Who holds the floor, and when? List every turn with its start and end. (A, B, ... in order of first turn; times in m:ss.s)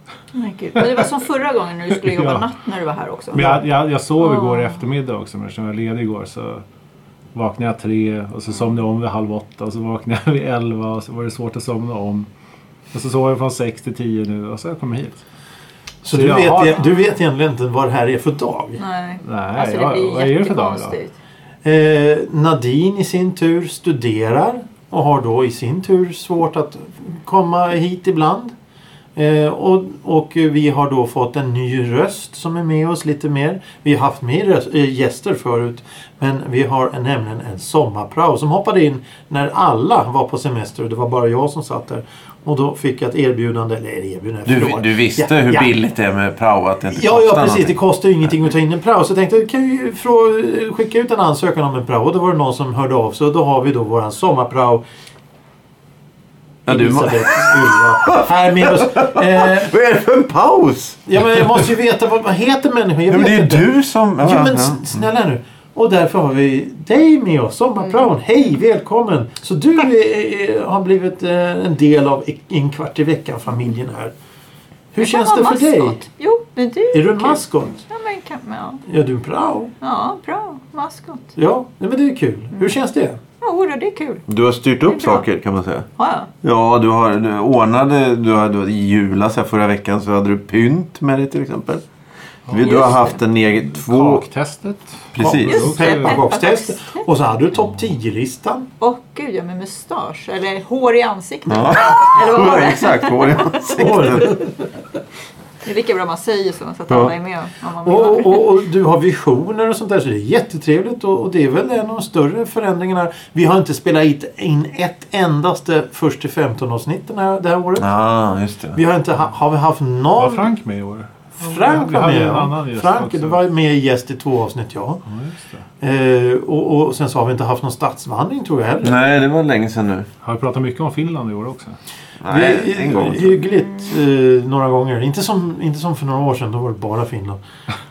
0:00.3-0:03.5 A
0:00.8-0:01.1 B
0:02.0-0:02.4 B
0:03.3-0:06.6 B
0:03.4-0:03.6 C
0:04.2-0:04.8 A
0:07.4-0:12.3 B
0:12.9-0:15.2 B
0:16.0-0:18.8 C
0:16.1-0:16.8 B
0:18.8-0:21.1 A
0:19.2-0:21.0 B
0:21.6-0:28.5 C
0:29.2-0:45.7 C
0:44.5-0:47.8 D
0:46.9-0:54.8 C
0:56.7-0:59.7 C
0:56.7-1:01.7 D
1:01.1-1:03.7 C
1:03.1-1:04.9 D
1:04.2-1:14.1 C
1:14.9-1:16.0 C
1:15.0-1:18.8 A
1:16.9-1:17.8 C
1:18.9-1:19.7 C
1:19.8-1:21.3 A
1:21.4-1:23.2 C
1:23.4-1:24.2 A
1:24.3-1:25.9 D
1:24.8-1:25.3 A
1:26.0-1:26.3 A
1:26.4-1:31.8 D
1:32.5-1:32.8 B
1:32.5-1:34.2 D
1:32.6-1:33.2 A
1:33.7-1:36.3 B
1:35.1-1:35.6 D
1:35.2-1:38.7 C
1:35.5-1:36.9 A
1:38.8-1:43.7 A
1:41.5-1:44.4 D
1:43.7-1:44.5 C
1:45.6-1:48.6 A
1:46.9-1:47.1 D
1:47.8-1:57.9 C
1:57.8-1:58.8 D
1:58.7-2:00.5 C
2:00.2-2:03.4 B
2:01.4-2:05.0 C
2:05.1-2:05.6 B
2:05.8-2:09.0 C
2:08.8-2:10.1 D
2:10.2-2:11.8 B
2:12.2-2:13.4 D
2:12.3-2:17.4 C